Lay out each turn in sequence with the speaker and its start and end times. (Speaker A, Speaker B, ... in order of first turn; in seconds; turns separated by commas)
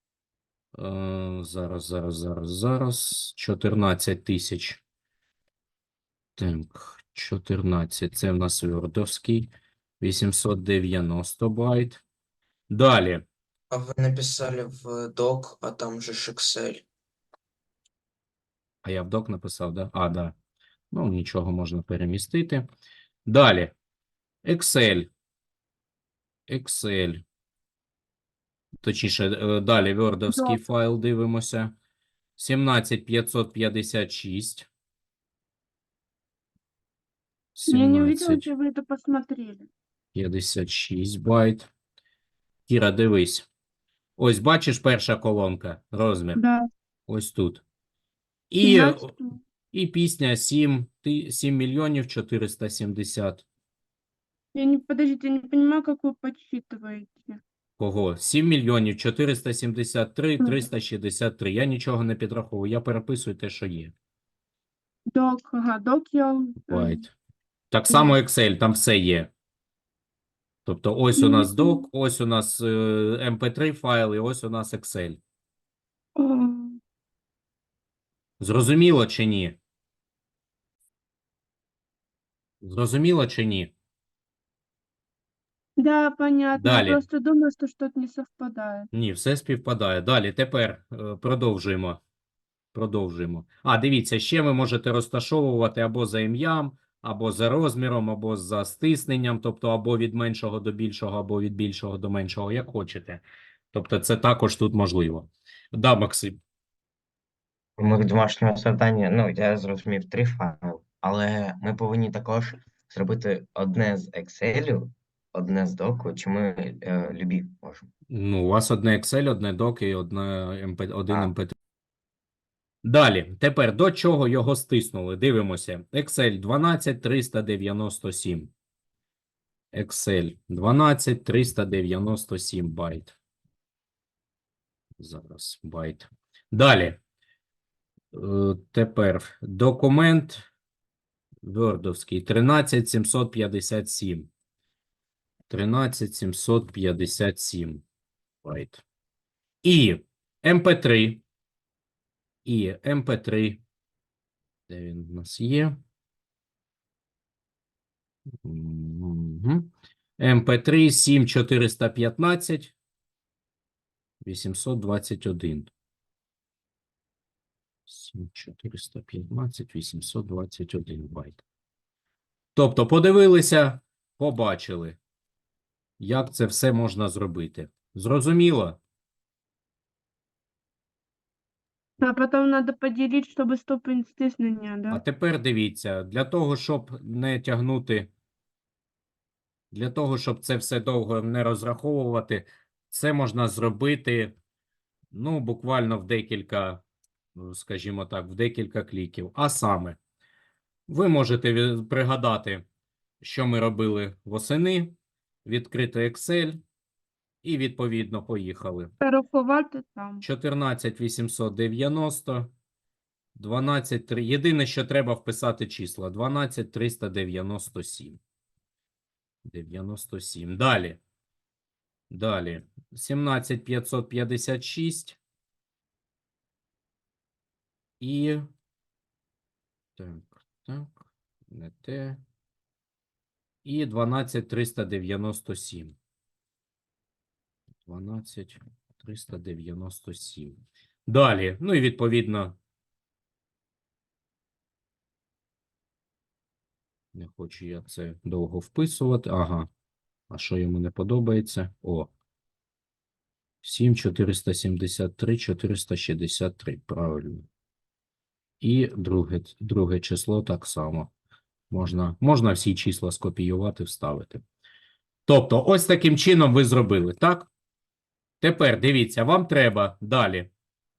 Speaker A: 0.7-4.8, Speaker A: 6.3-12.0, Speaker A: 12.7-13.2, Speaker B: 13.7-16.8, Speaker A: 18.8-20.3, Speaker A: 20.9-22.6, Speaker A: 23.3-23.7, Speaker A: 24.4-25.1, Speaker A: 26.5-27.2, Speaker A: 28.8-31.7, Speaker C: 30.3-30.6, Speaker A: 32.4-34.7, Speaker A: 37.6-38.5, Speaker C: 37.7-39.7, Speaker A: 40.1-41.7, Speaker A: 42.7-43.5, Speaker A: 44.2-46.4, Speaker C: 46.4-46.7, Speaker A: 47.1-47.6, Speaker A: 48.5-49.1, Speaker C: 48.6-49.4, Speaker A: 49.7-53.5, Speaker C: 54.5-57.4, Speaker A: 57.8-63.9, Speaker C: 65.1-67.0, Speaker A: 66.7-67.1, Speaker A: 67.7-69.3, Speaker C: 67.9-68.2, Speaker A: 70.7-75.2, Speaker C: 71.1-71.8, Speaker C: 76.2-76.8, Speaker A: 78.4-79.6, Speaker A: 82.6-83.7, Speaker C: 85.8-88.9, Speaker A: 86.5-87.0, Speaker A: 88.9-92.0, Speaker A: 92.7-106.4, Speaker D: 107.8-117.9, Speaker A: 118.1-121.5, Speaker A: 122.8-128.5, Speaker A: 129.7-133.1, Speaker A: 135.0-137.0, Speaker A: 138.1-140.4, Speaker A: 141.4-144.3, Speaker A: 145.5-147.8, Speaker A: 148.4-148.8, Speaker A: 149.6-151.2, Speaker A: 152.4-153.6, Speaker A: 154.7-155.8, Speaker A: 158.4-162.7, Speaker A: 164.2-165.7, Speaker A: 167.9-171.4, Speaker A: 172.5-175.0, Speaker A: 176.0-178.8, Speaker C: 182.0-185.0, Speaker A: 184.9-188.1, Speaker A: 189.7-194.3, Speaker A: 195.1-196.8, Speaker A: 197.3-200.0, Speaker A: 200.9-202.6, Speaker A: 203.2-206.6, Speaker A: 207.4-208.9, Speaker C: 209.0-210.2, Speaker A: 210.2-212.5, Speaker A: 213.3-218.2, Speaker A: 219.4-221.0, Speaker A: 222.1-225.2, Speaker A: 228.0-228.5, Speaker A: 229.9-232.2, Speaker A: 233.6-235.9, Speaker A: 237.8-242.6, Speaker A: 247.1-249.7, Speaker A: 250.3-252.1, Speaker A: 253.6-257.4, Speaker A: 258.6-261.1, Speaker A: 261.7-264.4, Speaker A: 265.3-267.5, Speaker A: 268.4-270.5